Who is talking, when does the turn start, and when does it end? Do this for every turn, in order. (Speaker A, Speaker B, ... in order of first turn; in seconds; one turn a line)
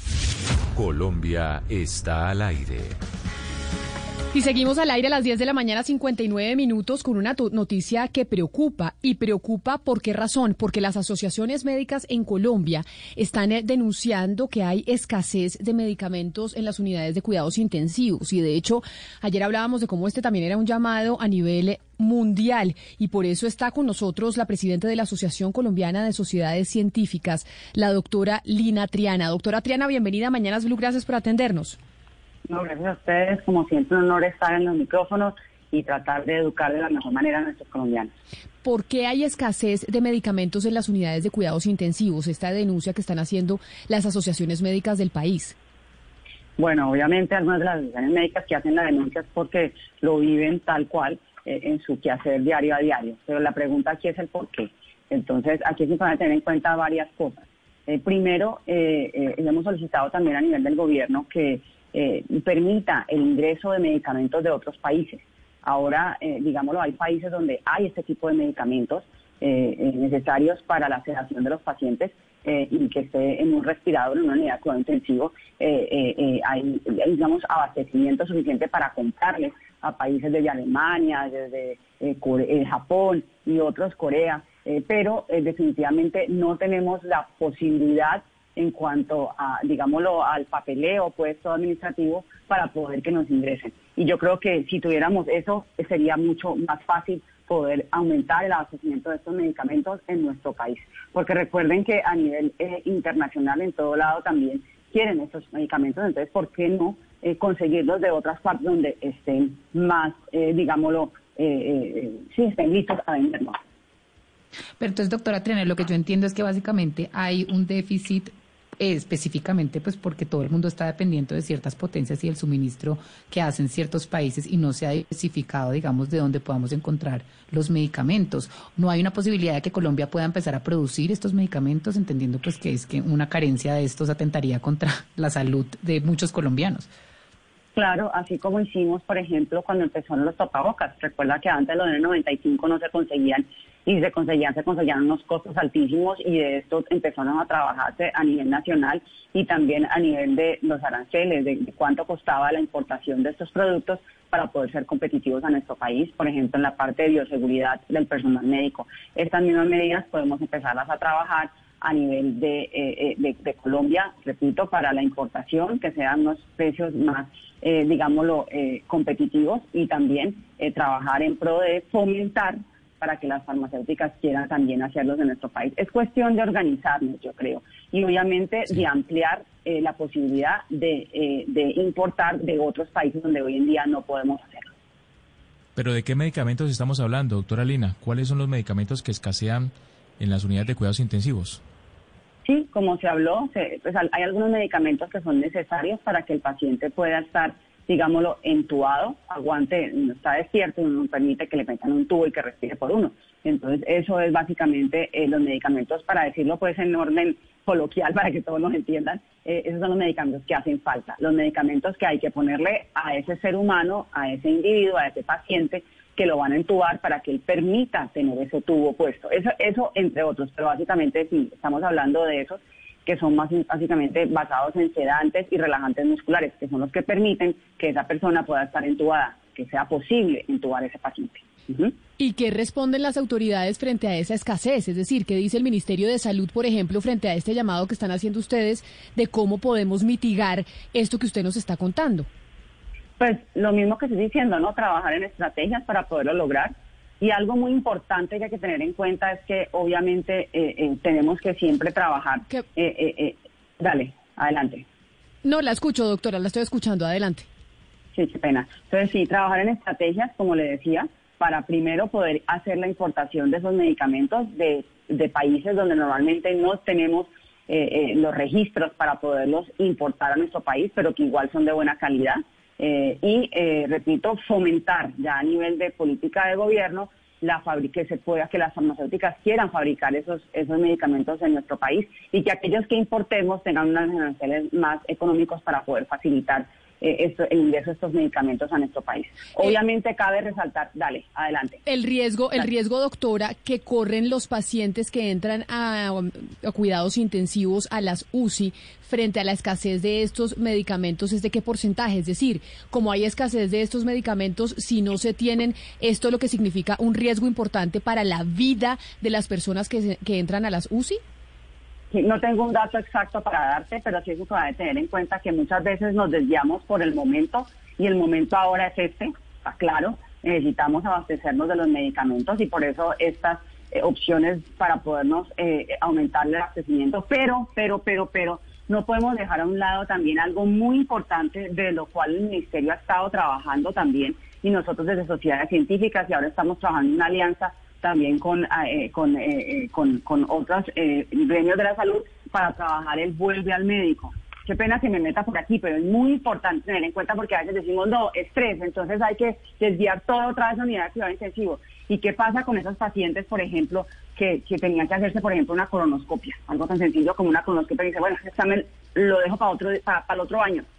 Speaker A: 0.8-2.9
Speaker B: 4.3-31.8
Speaker C: 32.5-38.1
Speaker B: 38.6-45.5
Speaker C: 46.6-113.5
Speaker D: 114.8-136.9
Speaker C: 137.8-184.7
Speaker E: 185.8-191.6
Speaker C: 192.4-231.9
Speaker B: 232.2-242.3
Speaker C: 243.2-254.8
Speaker B: 255.4-257.5
Speaker C: 258.1-291.8
Speaker B: 291.8-311.2
Speaker C: 312.1-360.8